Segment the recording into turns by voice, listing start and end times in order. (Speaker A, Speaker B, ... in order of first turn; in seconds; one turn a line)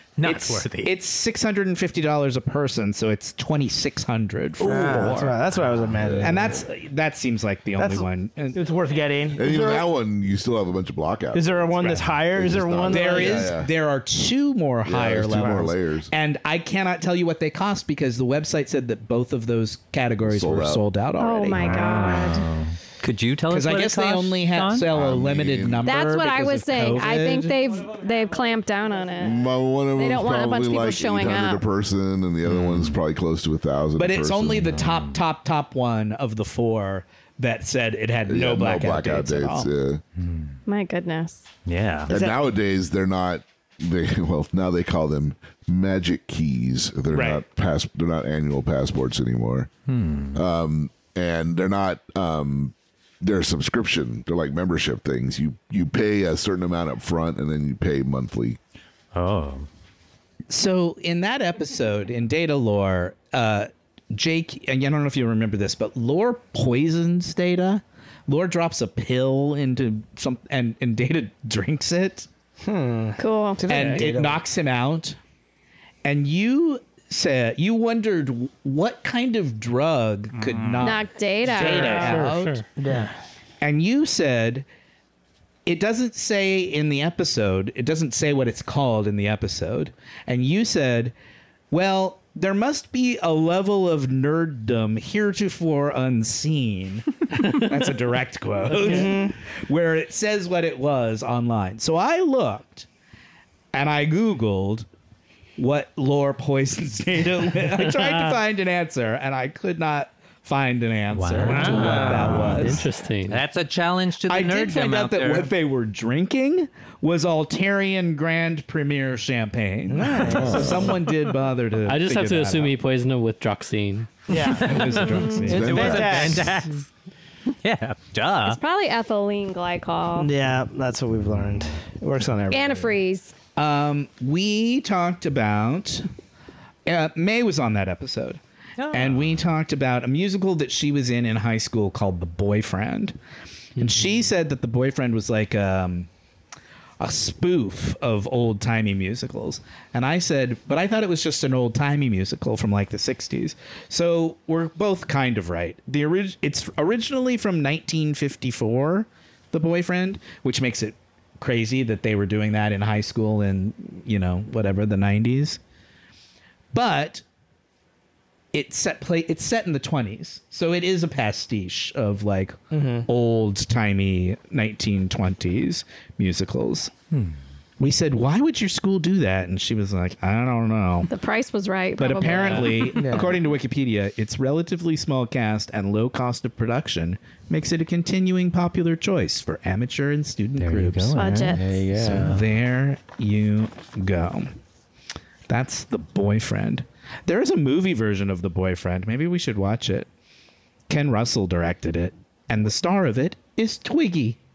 Speaker A: 0.2-0.9
Speaker B: 0.2-5.4
Speaker C: 4.6-6.6
Speaker D: 5.9-6.6
Speaker B: 6.2-8.6
Speaker C: 7.8-9.8
Speaker D: 9.4-13.7
Speaker C: 11.3-13.6
Speaker B: 12.9-22.0
Speaker D: 14.9-16.1
Speaker C: 15.3-15.6
Speaker D: 20.2-20.8
Speaker E: 21.2-22.5
Speaker A: 21.6-24.9
Speaker B: 23.5-27.6
Speaker D: 24.9-25.9
Speaker E: 25.8-29.4
Speaker D: 29.2-34.9
Speaker E: 29.9-31.6
Speaker A: 32.5-33.0
Speaker B: 34.0-39.7
Speaker A: 34.7-35.2
Speaker D: 38.3-40.0
Speaker A: 40.2-40.6
Speaker E: 40.7-41.5
Speaker A: 41.7-42.1
Speaker D: 42.1-49.7
Speaker C: 42.1-42.4
Speaker B: 47.1-47.4
Speaker A: 49.9-50.4
Speaker D: 50.3-58.6
Speaker A: 59.1-59.7
Speaker B: 60.5-72.3
Speaker C: 72.6-74.4
Speaker E: 73.2-73.7
Speaker B: 73.7-75.2
Speaker F: 73.7-74.0
Speaker B: 76.0-82.6
Speaker A: 80.4-80.9
Speaker E: 80.8-82.2
Speaker F: 81.6-82.7
Speaker C: 82.8-83.2
Speaker B: 83.6-84.7
Speaker B: 85.7-91.1
Speaker B: 91.7-102.9
Speaker C: 98.8-99.4
Speaker B: 103.7-104.9
Speaker B: 105.6-112.8
Speaker F: 107.8-108.4
Speaker A: 111.1-115.5
Speaker C: 111.4-112.6
Speaker F: 111.6-113.4
Speaker B: 114.3-122.7
Speaker C: 119.9-121.0
Speaker D: 120.3-120.9
Speaker F: 121.8-124.2
Speaker C: 124.3-126.7
Speaker B: 124.4-126.3
Speaker A: 124.4-126.9
Speaker E: 125.1-125.5
Speaker D: 125.5-126.5
Speaker A: 127.5-128.6
Speaker E: 128.4-130.3
Speaker C: 130.2-132.9
Speaker E: 132.5-133.3
Speaker B: 133.6-136.1
Speaker B: 136.9-143.2
Speaker A: 138.8-139.3
Speaker B: 143.8-146.1
Speaker B: 147.0-165.6
Speaker B: 166.7-167.2
Speaker B: 168.5-176.9
Speaker C: 172.7-173.1
Speaker B: 177.8-181.1
Speaker E: 181.1-183.0
Speaker B: 182.0-191.2
Speaker C: 183.0-183.4
Speaker A: 190.6-192.4
Speaker E: 191.1-191.6
Speaker C: 191.3-192.4
Speaker B: 192.0-194.6
Speaker B: 195.5-200.1
Speaker B: 200.9-204.4